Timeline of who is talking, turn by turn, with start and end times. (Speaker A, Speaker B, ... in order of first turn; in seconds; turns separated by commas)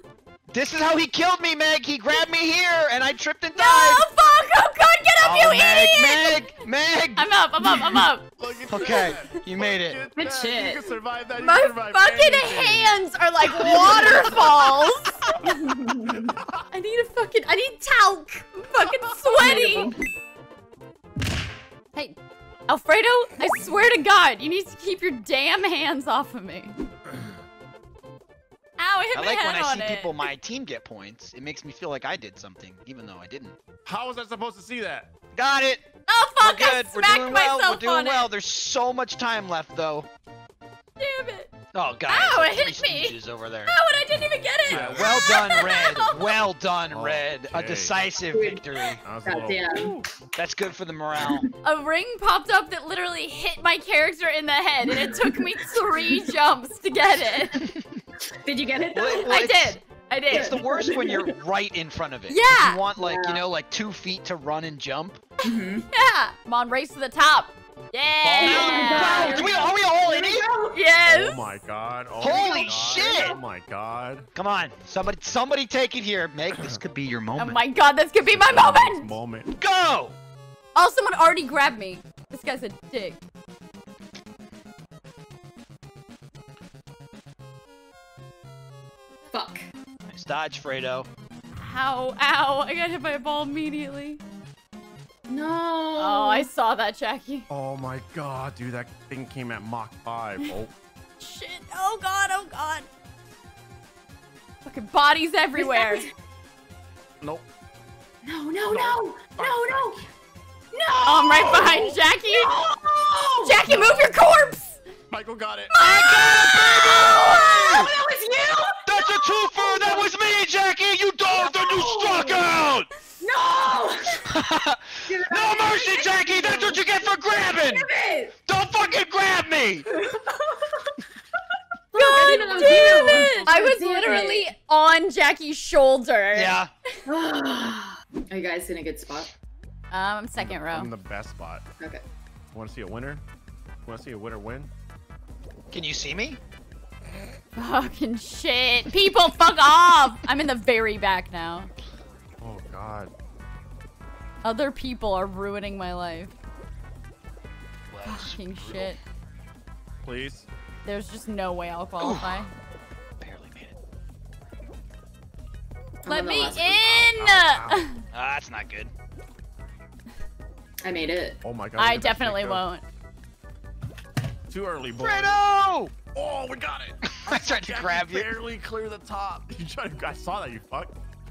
Speaker A: 0.5-4.0, Speaker B: 3.5-6.4, Speaker A: 5.2-7.3, Speaker B: 7.2-9.4, Speaker C: 7.6-7.9, Speaker D: 8.4-12.9, Speaker A: 8.7-10.1, Speaker C: 10.1-11.0, Speaker B: 11.4-16.1, Speaker D: 13.5-15.3, Speaker C: 15.8-16.2, Speaker D: 16.1-16.5, Speaker B: 16.7-19.9, Speaker D: 18.9-19.5, Speaker C: 19.4-20.0, Speaker B: 21.9-26.8, Speaker B: 28.8-30.2, Speaker A: 29.1-33.6, Speaker D: 33.8-35.1, Speaker A: 35.3-35.9, Speaker B: 36.1-38.3, Speaker A: 36.4-40.1, Speaker B: 41.0-41.5, Speaker A: 41.7-43.7, Speaker B: 42.1-46.3, Speaker D: 44.7-45.5, Speaker A: 44.7-49.0, Speaker D: 46.9-48.0, Speaker C: 48.2-49.9, Speaker D: 49.0-50.0, Speaker A: 50.3-51.4, Speaker B: 51.6-57.7, Speaker C: 54.9-56.3, Speaker C: 58.4-59.4, Speaker A: 58.8-59.8, Speaker B: 59.2-60.6, Speaker C: 60.3-61.3, Speaker A: 60.3-65.2, Speaker B: 62.3-62.8, Speaker C: 63.0-63.4, Speaker C: 65.4-65.8, Speaker B: 65.9-69.5, Speaker A: 68.2-70.5, Speaker C: 68.4-70.8, Speaker B: 70.7-71.5, Speaker D: 71.0-74.3, Speaker A: 72.2-73.4, Speaker C: 72.5-73.0, Speaker A: 74.3-77.6, Speaker B: 77.4-79.1, Speaker D: 78.2-79.5, Speaker A: 79.6-80.2, Speaker B: 80.7-83.2, Speaker C: 89.3-89.7, Speaker A: 90.1-91.1, Speaker B: 91.5-94.2, Speaker C: 95.3-96.5, Speaker B: 96.0-97.5, Speaker D: 97.5-100.7, Speaker B: 101.2-102.9, Speaker B: 104.6-106.0, Speaker C: 105.6-106.0, Speaker D: 107.2-107.5, Speaker C: 108.2-110.0, Speaker D: 108.7-110.1, Speaker C: 110.7-113.8, Speaker B: 111.0-112.5, Speaker D: 111.4-111.9, Speaker B: 113.4-114.8, Speaker D: 115.1-115.8, Speaker B: 115.7-117.3, Speaker A: 115.8-117.9, Speaker C: 116.7-120.1, Speaker A: 118.8-122.9, Speaker C: 121.3-122.5, Speaker C: 123.2-124.2, Speaker A: 124.2-127.9, Speaker C: 125.0-128.3, Speaker A: 128.4-129.9, Speaker C: 130.1-130.8, Speaker C: 131.9-134.4, Speaker B: 131.9-136.6, Speaker D: 132.2-133.5, Speaker A: 136.3-136.7, Speaker C: 137.1-139.3, Speaker B: 139.9-140.9, Speaker D: 140.4-141.6, Speaker D: 142.5-143.2, Speaker D: 143.8-144.7, Speaker A: 145.7-146.4, Speaker B: 147.6-151.7, Speaker D: 152.4-153.1, Speaker B: 154.4-156.3, Speaker A: 157.9-158.9, Speaker B: 158.0-159.0, Speaker D: 160.0-160.5, Speaker B: 160.8-162.5, Speaker A: 162.0-162.4, Speaker A: 163.2-163.7, Speaker C: 166.0-166.7, Speaker B: 166.0-168.0, Speaker D: 166.3-167.9, Speaker A: 168.1-168.9, Speaker C: 170.8-171.4, Speaker D: 171.4-172.6, Speaker B: 171.8-172.8, Speaker D: 174.5-175.4, Speaker A: 175.0-176.0, Speaker D: 176.0-180.9, Speaker A: 177.2-178.3